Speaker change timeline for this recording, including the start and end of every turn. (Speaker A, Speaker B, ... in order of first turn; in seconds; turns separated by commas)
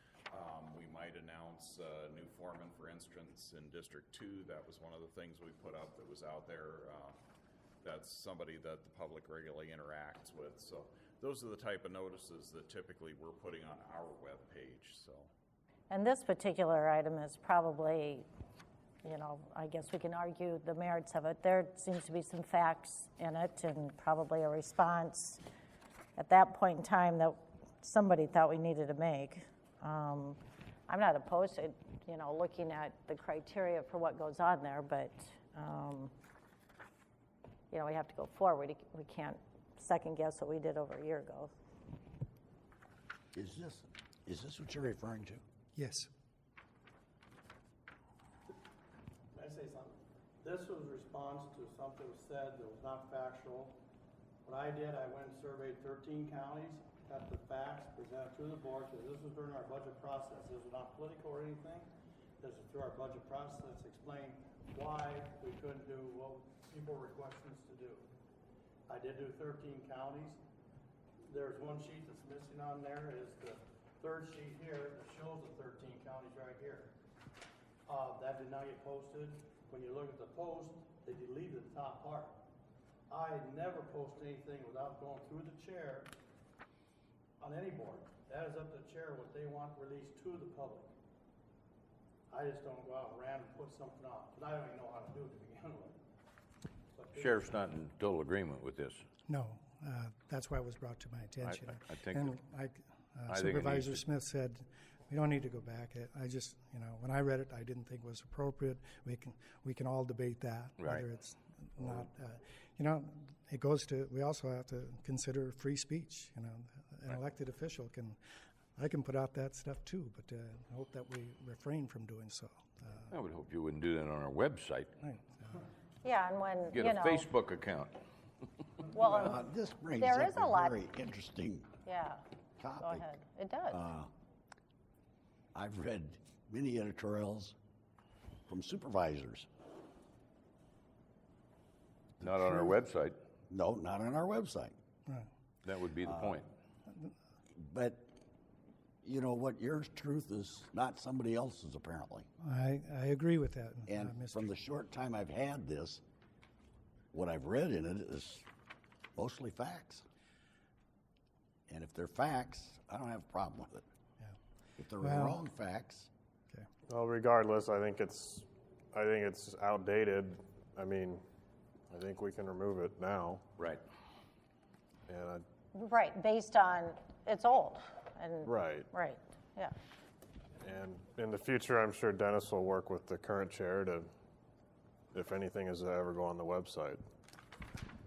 Speaker A: 0.3-7.2, Speaker A: 7.8-15.3, Speaker B: 15.9-18.2, Speaker B: 19.0-25.4, Speaker B: 26.2-36.1, Speaker B: 37.7-41.5, Speaker C: 43.3-45.4, Speaker D: 45.7-46.1, Speaker E: 49.3-53.8, Speaker E: 54.4-68.1, Speaker E: 68.9-70.4, Speaker E: 71.2-77.0, Speaker E: 77.8-82.4, Speaker E: 83.1-86.1, Speaker E: 87.4-90.9, Speaker E: 92.3-96.0, Speaker E: 96.9-97.5, Speaker F: 97.2-99.0, Speaker D: 99.3-118.2, Speaker F: 101.4-102.3, Speaker F: 103.3-104.0, Speaker F: 110.8-111.0, Speaker D: 118.8-123.1, Speaker F: 123.1-124.9, Speaker B: 126.0-127.3, Speaker F: 126.7-127.9, Speaker B: 128.9-129.4, Speaker C: 129.0-131.7, Speaker B: 129.9-130.8, Speaker B: 131.8-132.2, Speaker C: 132.6-133.0, Speaker B: 132.8-133.9, Speaker C: 133.7-134.1, Speaker C: 135.5-137.5, Speaker C: 138.5-139.5, Speaker F: 142.2-143.2, Speaker C: 142.2-142.8, Speaker C: 143.5-144.7, Speaker F: 145.6-146.5, Speaker C: 146.0-146.4, Speaker C: 147.5-148.1, Speaker C: 149.0-152.3, Speaker D: 152.4-154.5, Speaker C: 153.9-156.0, Speaker C: 157.1-158.4, Speaker C: 159.2-160.0, Speaker C: 161.7-163.8, Speaker C: 164.8-166.1, Speaker D: 165.0-165.4, Speaker G: 166.9-171.2, Speaker G: 171.9-173.4, Speaker G: 175.1-175.4, Speaker B: 175.7-179.7, Speaker G: 178.4-178.9, Speaker G: 180.6-184.1, Speaker G: 185.1-187.0